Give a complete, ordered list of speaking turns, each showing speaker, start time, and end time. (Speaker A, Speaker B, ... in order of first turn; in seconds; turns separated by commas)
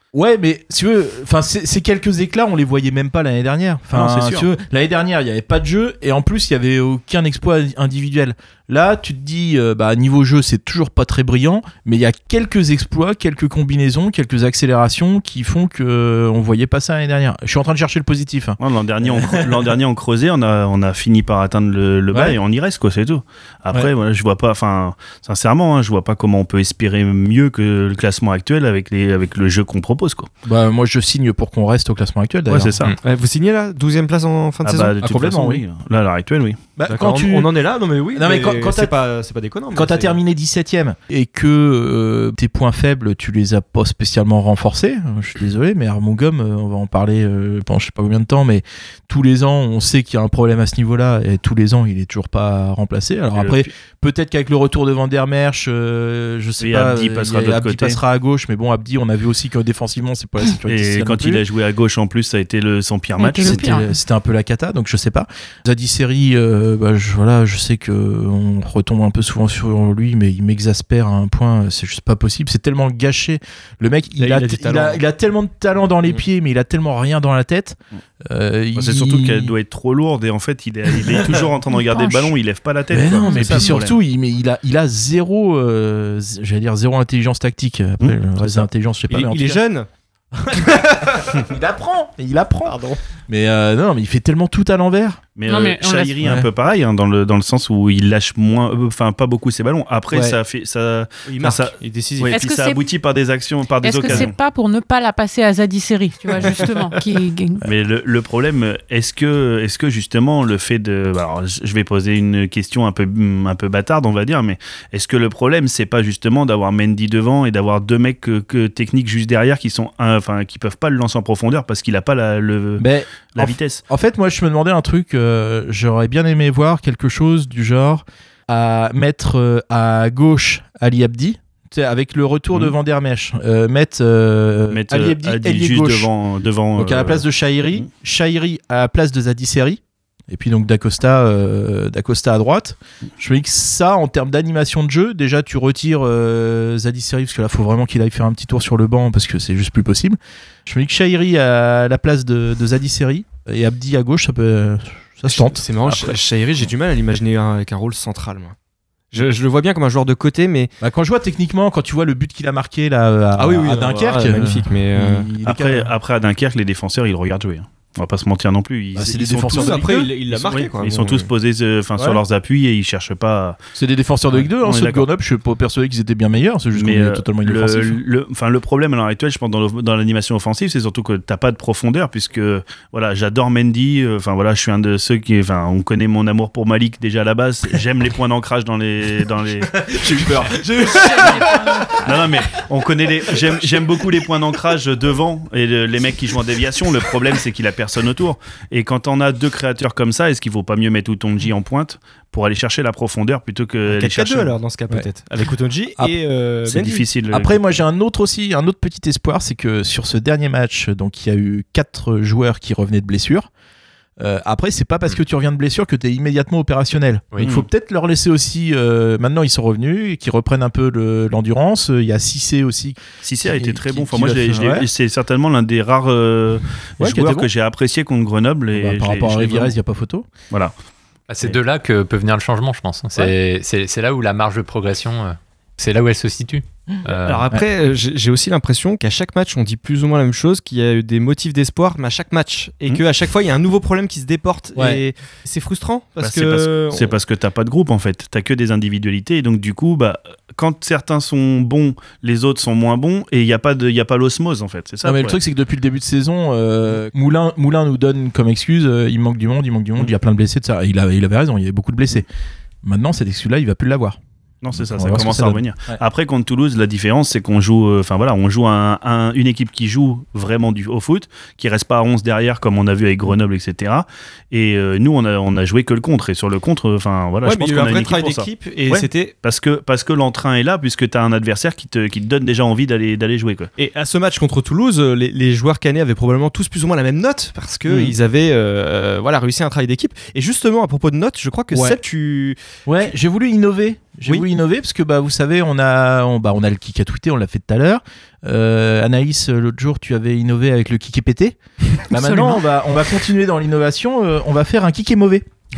Speaker A: 0.1-19.7, Speaker B: 3.9-4.5, Speaker B: 18.6-30.3, Speaker A: 22.1-22.4, Speaker A: 30.4-32.7, Speaker B: 32.5-32.9, Speaker C: 33.0-34.9, Speaker B: 34.6-36.6, Speaker A: 35.0-35.6, Speaker A: 36.8-37.5, Speaker C: 36.8-40.2, Speaker A: 38.1-38.9, Speaker A: 39.7-61.4, Speaker B: 53.3-53.7, Speaker B: 56.6-58.0, Speaker B: 60.7-63.8, Speaker D: 63.2-63.9, Speaker A: 63.4-79.5, Speaker C: 74.2-75.0, Speaker B: 78.8-84.0, Speaker A: 81.0-81.4, Speaker D: 81.9-82.3, Speaker A: 82.9-89.6, Speaker D: 83.1-83.7, Speaker B: 88.0-88.7, Speaker C: 89.1-89.9, Speaker A: 90.3-95.2, Speaker C: 90.6-91.1, Speaker C: 92.6-93.0, Speaker B: 95.4-104.3, Speaker D: 95.5-96.2, Speaker A: 100.1-100.4, Speaker C: 101.3-102.4, Speaker D: 102.3-102.8, Speaker D: 103.8-107.7, Speaker C: 106.5-106.7, Speaker B: 107.6-123.8, Speaker A: 122.8-136.1, Speaker B: 134.7-137.9, Speaker A: 136.8-156.1, Speaker C: 155.2-158.6, Speaker C: 159.1-160.7, Speaker A: 160.8-165.9, Speaker C: 163.4-165.3, Speaker B: 165.4-173.6, Speaker A: 168.9-170.1, Speaker C: 169.5-171.3, Speaker A: 172.0-172.2, Speaker A: 173.8-178.0, Speaker B: 174.3-175.1, Speaker B: 176.8-190.3, Speaker A: 189.7-192.2, Speaker D: 190.9-192.0, Speaker B: 191.2-191.4, Speaker B: 192.0-204.6, Speaker A: 193.5-194.0, Speaker C: 203.9-207.1, Speaker B: 206.7-207.6, Speaker A: 207.3-213.5, Speaker A: 214.2-224.9, Speaker B: 217.4-217.7, Speaker B: 223.2-229.8, Speaker A: 227.0-227.5, Speaker A: 228.7-230.3, Speaker E: 231.3-237.5, Speaker A: 236.9-237.7, Speaker C: 237.1-247.2, Speaker A: 244.8-245.0, Speaker B: 246.2-255.4, Speaker A: 255.0-262.3, Speaker A: 262.8-264.2, Speaker B: 264.6-283.7, Speaker A: 264.7-266.0, Speaker C: 277.4-279.3, Speaker C: 283.8-292.6, Speaker A: 291.7-292.0, Speaker A: 292.9-305.5, Speaker D: 302.1-302.6